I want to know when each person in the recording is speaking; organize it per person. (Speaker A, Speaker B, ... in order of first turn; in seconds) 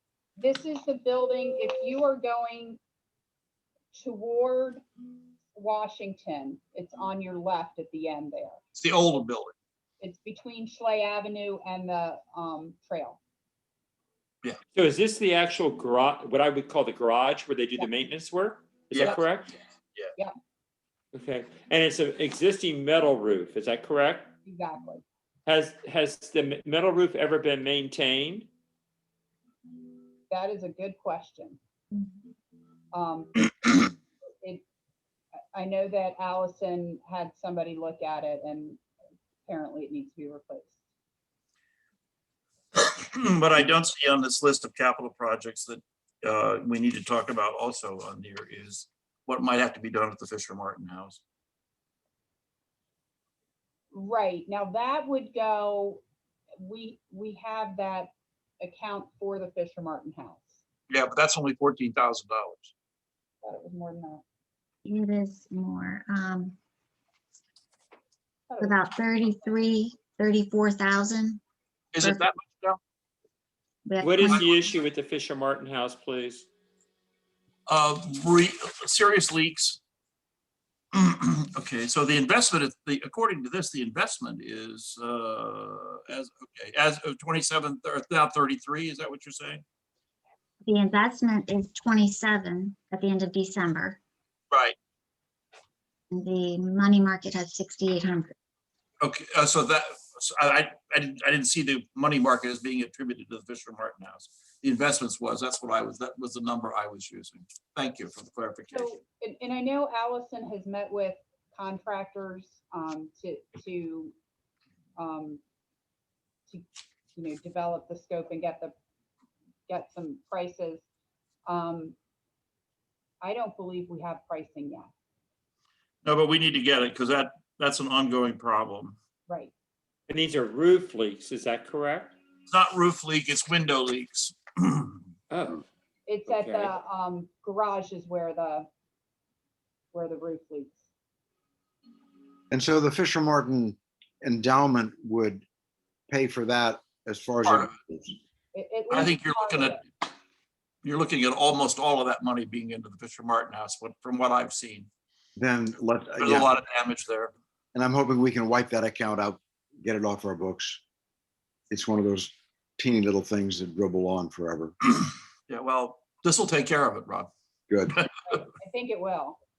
Speaker A: 0.4-2.8, 3.9-4.8, 5.5-8.6, 10.0-13.2, 24.4-25.0, 30.3-31.6, 32.9-33.4, 35.5-38.8, 39.5-40.8, 53.9-56.0, 56.6-60.6, 63.4-64.2, 68.5-68.7, 108.7-114.1, 115.0-115.4, 116.5-118.7, 119.7-120.8, 121.5-121.9, 123.2-124.9, 129.3-129.5, 136.1-138.7, 139.9-140.8, 148.5-149.8, 168.4-169.4
Speaker B: 8.7-9.5, 18.9-19.2, 42.7-51.2, 60.9-62.7, 71.9-72.8, 77.7-79.8, 80.9-89.6, 94.5-94.8, 99.0-108.9, 126.0-129.0, 132.5-135.0, 147.4-147.7, 148.9-149.8, 150.8-154.9, 156.2-157.3, 165.5-167.3
Speaker C: 14.7-19.5, 21.1-24.3, 25.4-28.5, 74.0-76.5, 130.1-132.1, 135.3-135.6, 136.3-136.7
Speaker D: 64.8-66.5, 68.6-71.4, 72.0-72.3, 73.8-74.5, 90.6-94.0, 96.1-98.3
Speaker E: 142.5-145.4, 146.1-148.2, 155.4-156.5, 157.7-160.8, 161.7-164.8, 167.7-168.0